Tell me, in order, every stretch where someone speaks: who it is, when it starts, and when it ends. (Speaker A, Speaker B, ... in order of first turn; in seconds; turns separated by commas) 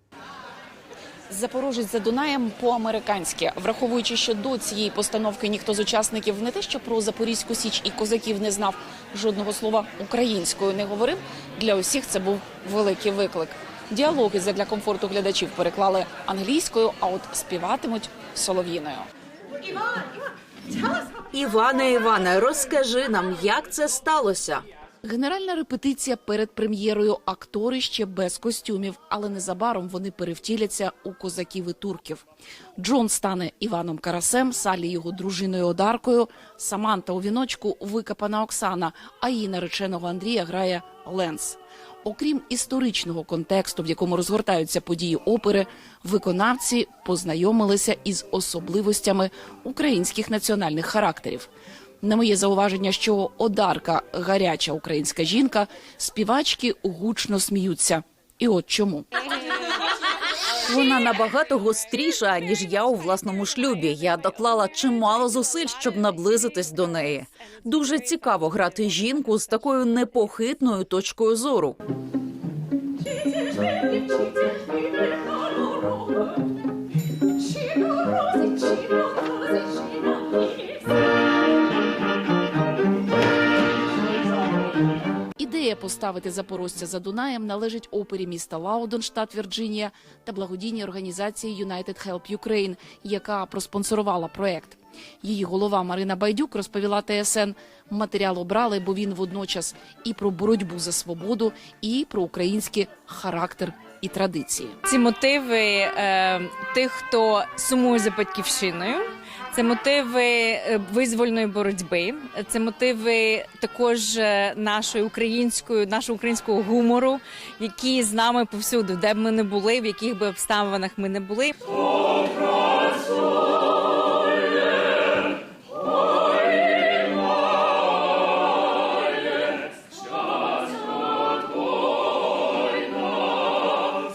Speaker A: 1.3-19.1, Speaker B: 21.3-24.6, Speaker A: 25.0-32.2, Speaker A: 32.8-51.5, Speaker A: 52.0-59.1, Speaker B: 60.6-71.8, Speaker A: 85.4-104.8, Speaker C: 104.8-121.6